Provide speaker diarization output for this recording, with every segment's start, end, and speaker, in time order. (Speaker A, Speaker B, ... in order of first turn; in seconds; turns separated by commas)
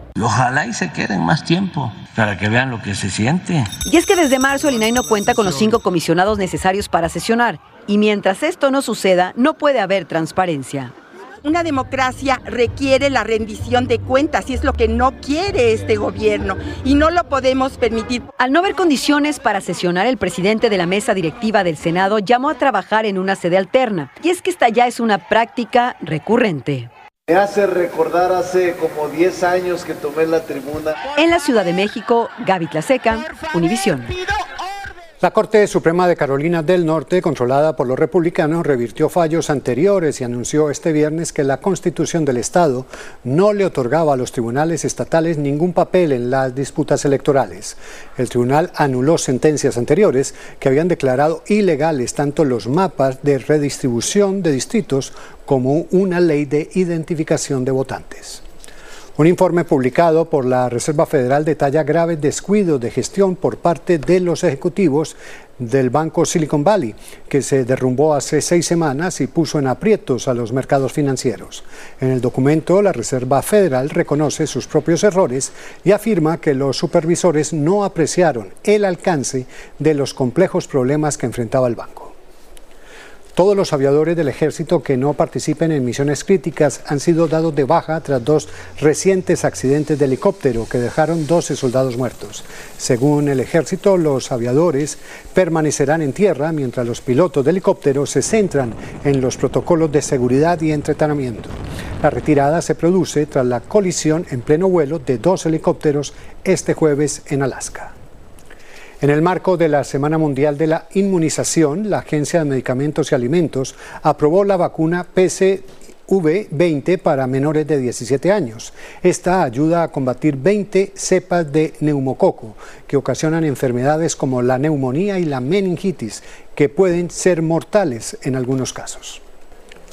Speaker A: 0.3-3.5, Speaker B: 3.9-10.9, Speaker C: 11.5-18.2, Speaker B: 18.4-26.9, Speaker D: 28.8-30.9, Speaker B: 31.2-34.1, Speaker E: 35.2-58.4, Speaker E: 59.2-82.1, Speaker E: 83.4-107.9, Speaker E: 109.0-129.2